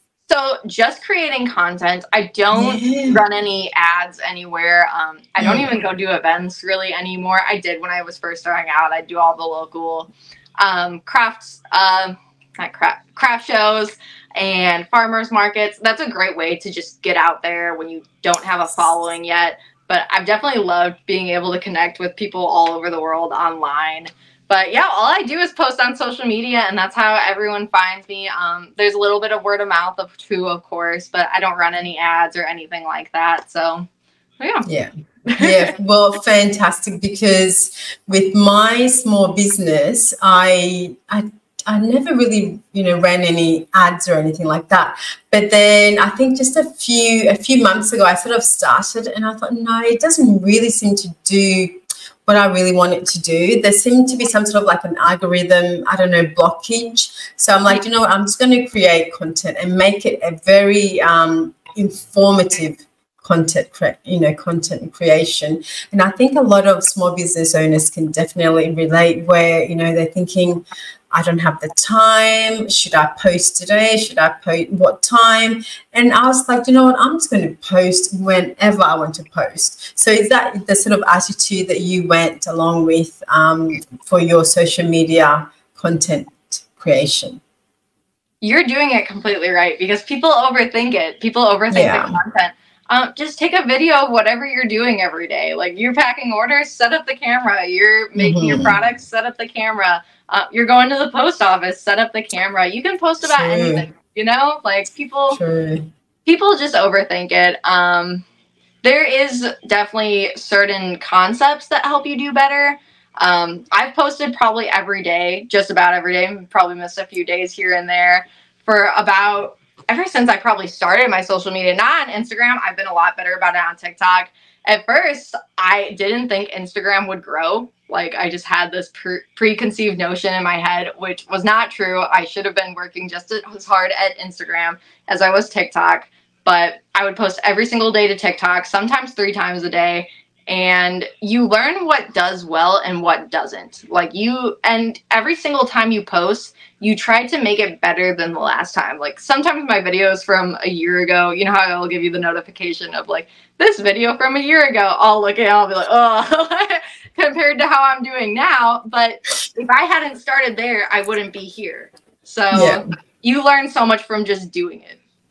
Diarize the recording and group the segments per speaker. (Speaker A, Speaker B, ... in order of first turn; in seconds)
Speaker A: 0.3-33.9, 34.4-34.7, 35.3-35.7, 88.4-105.4, 106.2-108.2, 108.8-165.0
Speaker B: 2.5-3.2, 5.4-5.7, 34.6-87.4, 91.7-92.2, 98.2-98.8, 103.2-103.9, 105.3-105.9, 162.5-162.8